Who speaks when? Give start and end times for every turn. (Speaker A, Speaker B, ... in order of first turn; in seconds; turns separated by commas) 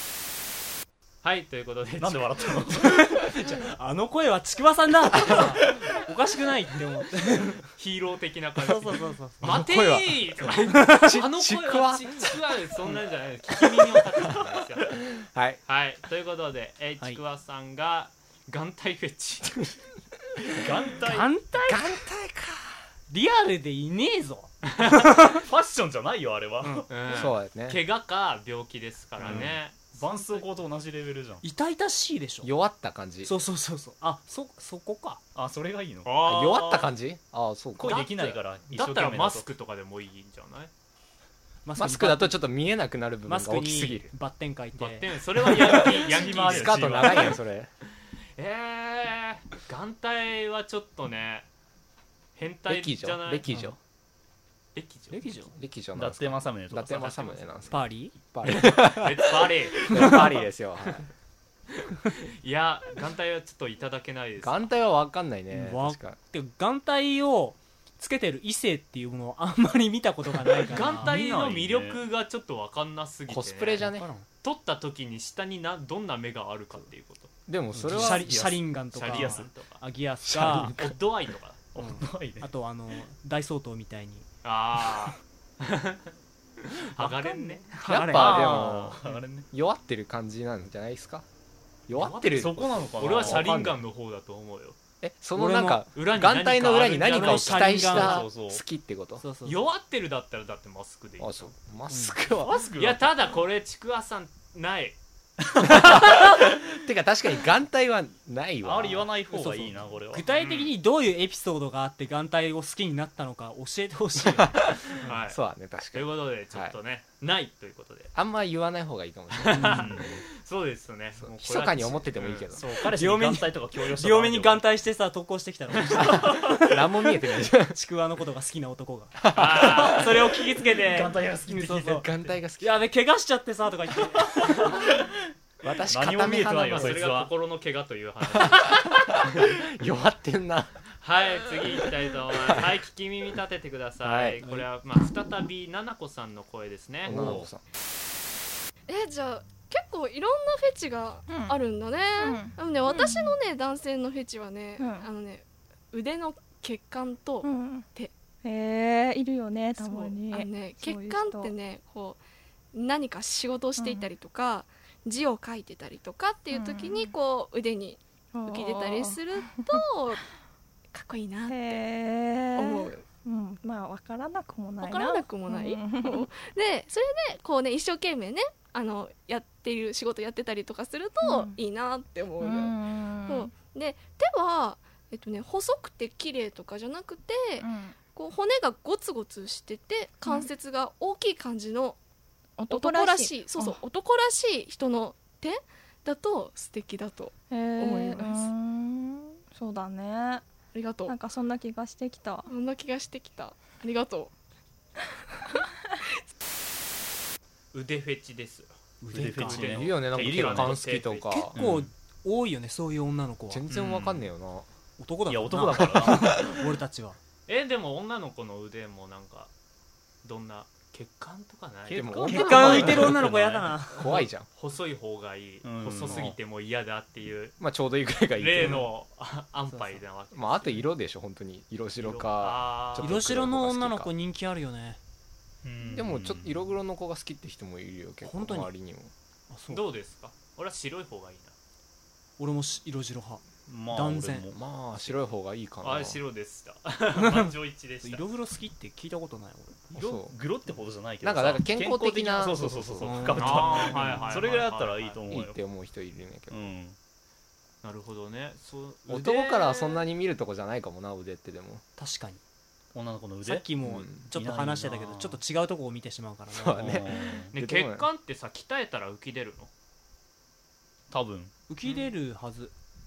Speaker A: 1.2-2.6, Speaker B: 2.0-3.1, Speaker C: 2.8-7.7, Speaker A: 7.8-15.0, Speaker C: 8.6-9.5, Speaker D: 9.4-12.4, Speaker D: 15.1-15.6, Speaker A: 15.7-19.7, Speaker B: 20.5-21.3, Speaker C: 21.1-22.0, Speaker D: 21.7-22.8, Speaker C: 23.1-25.4, Speaker A: 24.7-25.0, Speaker B: 25.3-26.9, Speaker C: 26.6-26.9, Speaker A: 26.9-30.5, Speaker D: 27.1-27.8, Speaker B: 29.2-31.5, Speaker C: 31.4-32.5, Speaker D: 32.4-33.3, Speaker C: 33.2-35.2, Speaker B: 35.4-36.1, Speaker A: 36.0-36.9, Speaker D: 36.2-38.1, Speaker B: 37.8-39.5, Speaker A: 37.8-40.7, Speaker C: 41.7-42.4, Speaker D: 41.8-44.1, Speaker C: 43.3-45.1, Speaker A: 44.8-47.4, Speaker D: 45.5-47.7, Speaker B: 45.6-47.4, Speaker A: 48.4-51.5, Speaker A: 52.4-53.5, Speaker D: 52.7-53.8, Speaker A: 54.8-55.2, Speaker C: 55.1-55.5, Speaker D: 55.5-61.1, Speaker B: 56.0-57.2, Speaker A: 56.9-57.7, Speaker C: 57.7-58.1, Speaker A: 59.0-60.2, Speaker A: 62.2-64.7, Speaker D: 64.4-66.2, Speaker C: 65.5-71.2, Speaker A: 70.7-73.8, Speaker B: 70.9-72.0, Speaker D: 73.3-74.1, Speaker C: 73.8-74.3, Speaker A: 74.4-77.3, Speaker D: 77.5-78.4, Speaker C: 77.7-80.8, Speaker B: 77.8-79.5, Speaker A: 78.9-79.8, Speaker D: 80.3-81.0, Speaker A: 80.8-81.7, Speaker B: 81.7-82.5, Speaker C: 81.8-84.3, Speaker A: 84.4-86.1, Speaker A: 86.6-88.8, Speaker C: 87.0-89.2, Speaker D: 87.9-89.0, Speaker B: 88.0-89.5, Speaker D: 89.5-91.2, Speaker D: 91.9-93.8, Speaker A: 91.9-94.8, Speaker B: 92.3-93.6, Speaker D: 95.0-99.2, Speaker C: 95.3-95.9, Speaker A: 96.0-98.1, Speaker C: 97.1-98.3, Speaker B: 97.8-98.6, Speaker C: 99.2-99.6, Speaker A: 99.5-101.6, Speaker D: 101.2-102.6, Speaker C: 101.9-102.2, Speaker B: 102.4-103.1, Speaker A: 102.8-105.0, Speaker A: 105.6-106.3, Speaker D: 105.6-109.1, Speaker B: 108.6-110.3, Speaker C: 109.3-115.2, Speaker A: 110.3-110.7, Speaker D: 114.4-116.8, Speaker A: 115.0-115.4, Speaker A: 115.9-118.1, Speaker D: 118.2-120.2, Speaker A: 119.3-122.5, Speaker C: 119.5-119.9, Speaker B: 119.7-120.1, Speaker D: 121.2-122.6, Speaker B: 122.5-124.7, Speaker C: 122.9-127.1, Speaker D: 126.0-127.8, Speaker C: 127.6-132.1, Speaker D: 129.2-130.1, Speaker A: 129.3-130.1, Speaker B: 130.8-132.0, Speaker D: 131.6-132.8, Speaker C: 132.6-134.7, Speaker D: 135.6-137.1, Speaker B: 135.9-137.3, Speaker A: 136.4-139.2, Speaker D: 138.3-140.8, Speaker A: 141.0-147.2, Speaker D: 142.4-142.7, Speaker D: 144.0-144.6, Speaker B: 147.1-147.5, Speaker D: 147.1-147.6, Speaker E: 148.9-158.1, Speaker F: 151.3-151.6, Speaker F: 152.2-153.3, Speaker F: 154.8-155.1, Speaker F: 157.4-157.9, Speaker F: 158.4-161.5, Speaker E: 159.8-162.2, Speaker E: 162.7-170.2, Speaker F: 163.8-164.1, Speaker F: 166.5-167.1, Speaker F: 168.3-169.8, Speaker E: 170.9-171.8, Speaker F: 171.5-176.3, Speaker E: 172.6-173.1, Speaker E: 174.8-192.0, Speaker F: 181.2-181.6, Speaker F: 182.4-183.5, Speaker F: 187.6-188.0, Speaker F: 190.2-190.5, Speaker F: 192.6-193.8, Speaker E: 192.7-198.5, Speaker F: 197.5-200.5, Speaker E: 200.7-201.2, Speaker F: 201.1-202.5, Speaker E: 202.5-204.3, Speaker A: 207.7-208.7, Speaker C: 209.0-209.8, Speaker B: 209.1-210.8, Speaker A: 209.4-211.5, Speaker D: 209.6-211.5, Speaker C: 211.3-213.6, Speaker B: 211.5-211.9, Speaker D: 213.5-214.7, Speaker B: 213.7-214.3, Speaker C: 215.0-217.2, Speaker B: 215.3-216.4, Speaker D: 216.0-216.4, Speaker A: 217.5-219.5, Speaker A: 220.2-227.6, Speaker D: 221.9-223.2, Speaker B: 221.9-223.7, Speaker C: 222.2-224.2, Speaker D: 224.0-224.5, Speaker B: 225.6-226.3, Speaker D: 227.6-228.9, Speaker A: 228.4-230.9, Speaker C: 228.6-228.9, Speaker C: 229.7-230.0, Speaker D: 230.3-234.1, Speaker A: 232.0-233.2, Speaker C: 233.0-235.0, Speaker B: 235.6-236.7, Speaker D: 235.9-239.1, Speaker C: 238.2-238.7, Speaker C: 239.5-239.8, Speaker A: 239.7-241.5, Speaker C: 242.4-244.5, Speaker B: 243.7-244.6, Speaker D: 244.5-246.2, Speaker A: 245.8-248.2, Speaker C: 247.2-249.9, Speaker D: 249.9-250.3, Speaker B: 249.9-255.6, Speaker D: 251.2-254.0, Speaker C: 253.0-254.4, Speaker A: 253.4-255.2, Speaker D: 255.3-256.7, Speaker B: 256.5-257.0, Speaker A: 257.8-260.1, Speaker D: 259.1-261.8, Speaker C: 262.0-262.4, Speaker B: 262.9-263.7, Speaker C: 263.4-267.0, Speaker D: 263.8-264.3, Speaker B: 264.3-265.4, Speaker D: 266.5-268.1, Speaker B: 266.8-267.5, Speaker A: 267.5-269.7, Speaker B: 271.1-271.5, Speaker C: 271.7-272.7